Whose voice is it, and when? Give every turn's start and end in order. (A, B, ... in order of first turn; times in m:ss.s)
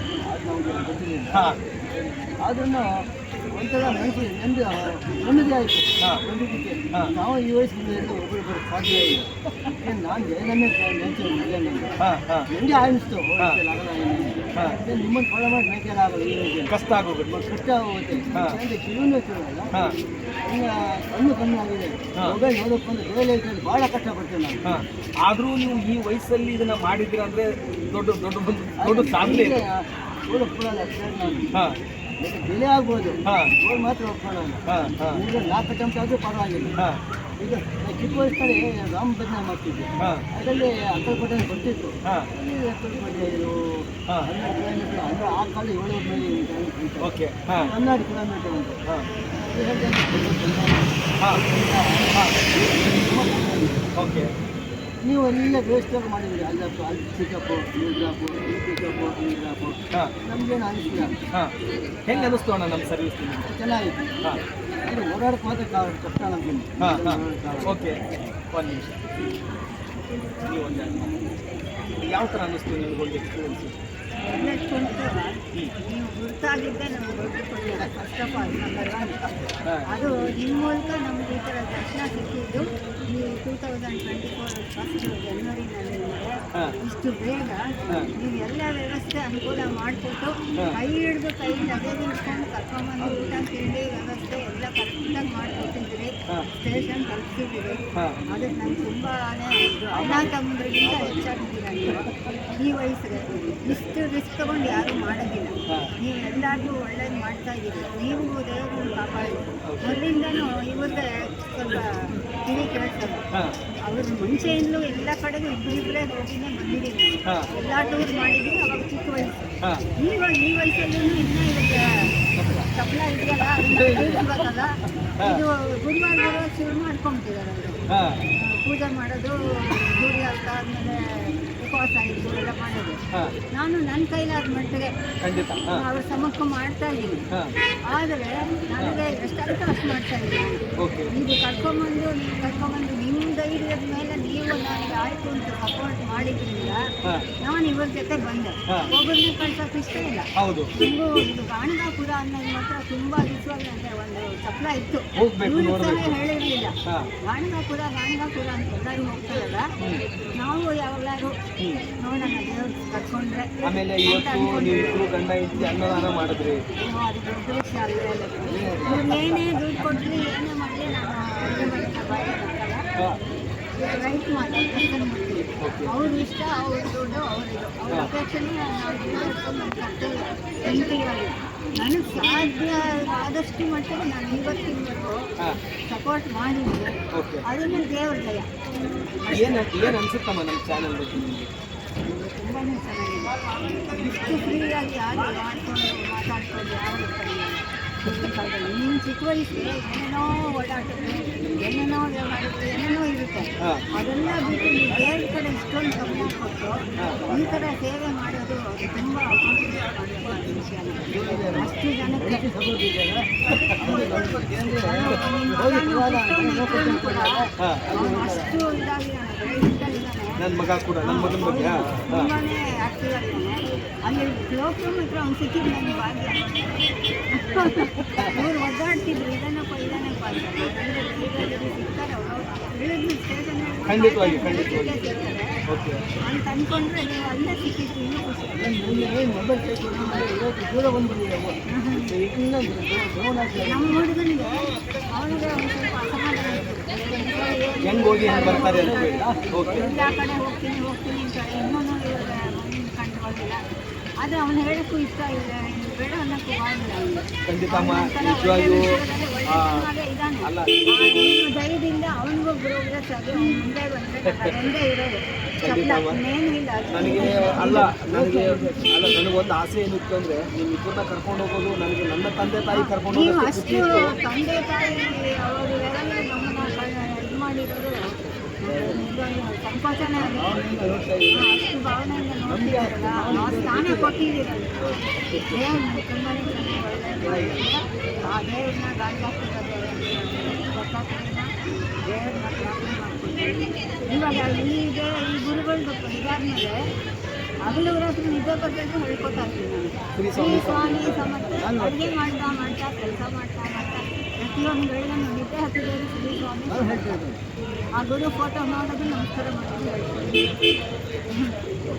0:00.2-0:11.9 A
0:01.3-0:01.6 B
0:12.0-0:12.5 B
0:12.5-0:16.7 A
0:16.7-0:17.3 B
0:17.3-0:19.8 A
0:20.5-0:24.6 A
0:24.6-0:29.6 B
0:28.8-0:31.5 A
0:32.2-0:36.8 A
0:33.2-0:33.5 B
0:34.7-0:35.2 B
0:37.4-0:47.1 A
0:40.0-0:40.2 B
0:47.0-0:47.7 B
0:47.6-0:48.8 A
0:49.3-0:53.9 A
0:54.0-0:54.3 B
0:55.0-1:01.2 A
1:02.0-1:03.5 B
1:02.1-1:02.4 A
1:03.4-1:04.1 A
1:04.8-1:07.7 A
1:06.8-1:08.0 B
1:08.5-1:09.0 B
1:10.4-1:11.2 B
1:12.0-1:13.8 B
1:14.2-1:19.2 C
1:19.8-1:27.6 C
1:28.1-1:37.8 C
1:38.3-1:53.2 C
1:39.9-1:40.3 A
1:49.6-1:50.0 B
1:53.8-1:59.4 C
2:00.0-2:02.1 C
2:02.4-2:02.7 B
2:02.7-2:07.8 C
2:03.6-2:04.3 B
2:07.9-2:08.2 B
2:08.3-2:13.0 C
2:13.5-2:14.9 C
2:15.2-2:15.8 B
2:15.7-2:17.2 C
2:17.9-2:20.6 C
2:20.8-2:21.1 B
2:21.1-2:26.8 C
2:27.4-2:36.7 C
2:30.4-2:30.7 B
2:35.2-2:36.1 B
2:37.2-2:39.7 C
2:40.4-2:41.4 C
2:42.0-2:45.1 C
2:43.6-2:46.6 B
2:46.8-2:52.8 C
2:48.5-2:49.0 A
2:49.0-2:49.5 B
2:53.8-3:05.3 C
2:55.6-2:55.9 B
3:05.9-3:06.9 C
3:07.1-3:07.4 B
3:07.4-3:08.5 C
3:09.2-3:09.7 C
3:09.3-3:11.5 B
3:12.0-3:13.3 C
3:13.9-3:32.4 C
3:31.1-3:31.7 B
3:31.2-3:38.5 A
3:33.5-3:34.1 B
3:33.8-3:37.4 C
3:37.6-3:37.8 B
3:37.9-3:40.4 C
3:40.4-3:42.3 B
3:41.0-3:55.5 C
3:48.0-3:48.4 B
3:53.9-3:55.0 B
3:55.7-3:56.0 B
3:56.2-3:58.9 C
3:58.5-4:04.0 A
3:59.9-4:00.3 C
4:01.7-4:02.1 C
4:03.6-4:13.6 C
4:07.8-4:09.8 B
4:08.2-4:10.2 A
4:14.2-4:27.8 C
4:17.4-4:18.9 B
4:19.5-4:19.9 B
4:20.4-4:21.0 B
4:24.2-4:24.6 B
4:25.6-4:26.2 B
4:26.9-4:34.2 B
4:27.0-4:29.0 A
4:32.7-4:38.1 C
4:38.6-4:40.6 C
4:38.7-4:39.0 A
4:40.2-4:41.4 A
4:41.4-4:45.0 C
4:42.4-4:44.2 A
4:45.5-4:51.5 C
4:47.2-4:47.6 B
4:52.1-4:56.8 C
4:57.6-5:07.2 C
5:00.2-5:01.3 B
5:01.6-5:02.1 A
5:06.7-5:07.4 A
5:08.0-5:10.6 C
5:11.3-5:11.6 C